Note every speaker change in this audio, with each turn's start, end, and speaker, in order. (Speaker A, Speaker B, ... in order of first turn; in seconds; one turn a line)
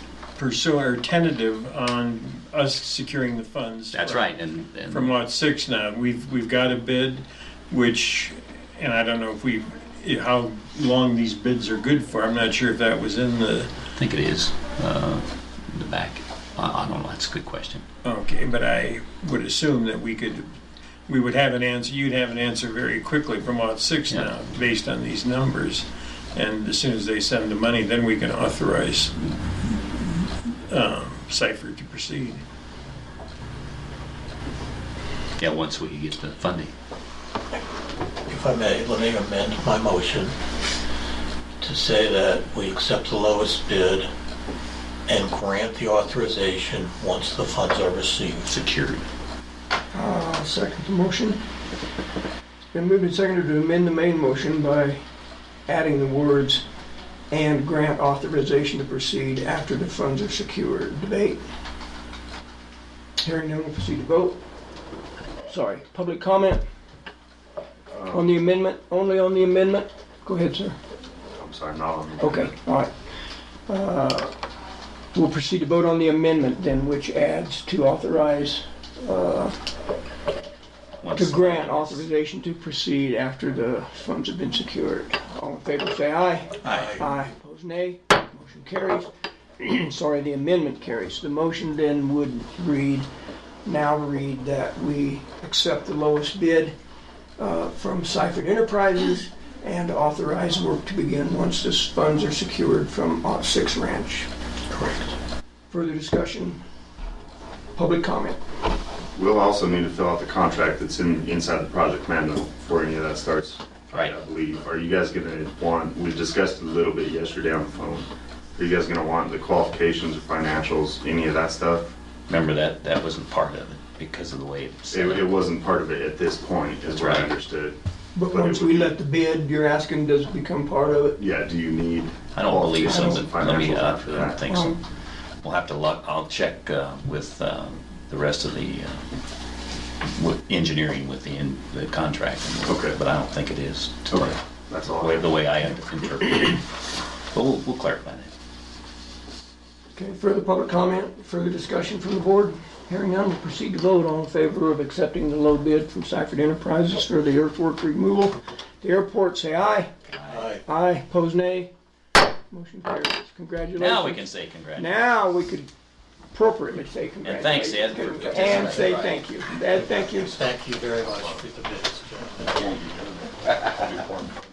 Speaker A: 0.3-4.3
Speaker B: 3.9-5.1
Speaker A: 4.9-13.8
Speaker B: 13.9-17.8
Speaker A: 18.0-20.5
Speaker A: 21.1-32.4
Speaker B: 35.4-36.7
Speaker C: 38.3-40.3
Speaker C: 41.6-44.1
Speaker C: 45.1-48.5
Speaker B: 48.5-49.0
Speaker D: 49.9-51.4
Speaker D: 52.7-55.0
Speaker D: 55.7-56.6
Speaker D: 57.3-61.4
Speaker D: 63.2-64.4
Speaker D: 65.5-66.6
Speaker E: 67.9-68.3
Speaker D: 68.1-70.8
Speaker E: 71.3-72.5
Speaker D: 72.2-72.9
Speaker D: 73.7-74.3
Speaker D: 75.1-79.5
Speaker B: 81.0-82.0
Speaker D: 81.1-93.1
Speaker C: 86.6-87.1
Speaker D: 93.6-96.7
Speaker D: 97.4-104.3
Speaker C: 104.7-105.1
Speaker D: 105.7-106.6
Speaker D: 107.8-108.4
Speaker E: 109.1-121.9
Speaker B: 122.3-125.3
Speaker E: 124.9-127.8
Speaker B: 126.9-127.3
Speaker D: 128.2-131.2
Speaker E: 128.3-128.9
Speaker E: 131.2-134.4
Speaker B: 132.3-134.8
Speaker D: 132.8-133.3
Speaker D: 134.5-134.8
Speaker B: 135.4-139.0
Speaker B: 140.0-146.6
Speaker E: 142.7-143.0
Speaker E: 144.1-145.3
Speaker B: 147.3-148.3
Speaker D: 149.9-159.9
Speaker B: 160.1-160.4
Speaker C: 160.3-160.6
Speaker D: 160.6-161.7
Speaker D: 162.5-164.2
Speaker B: 163.8-164.9
Speaker D: 164.8-165.7
Speaker D: 166.3-170.4
Speaker B: 167.2-169.3
Speaker C: 170.0-172.6
Speaker E: 172.5-173.9
Speaker B: 173.3-174.3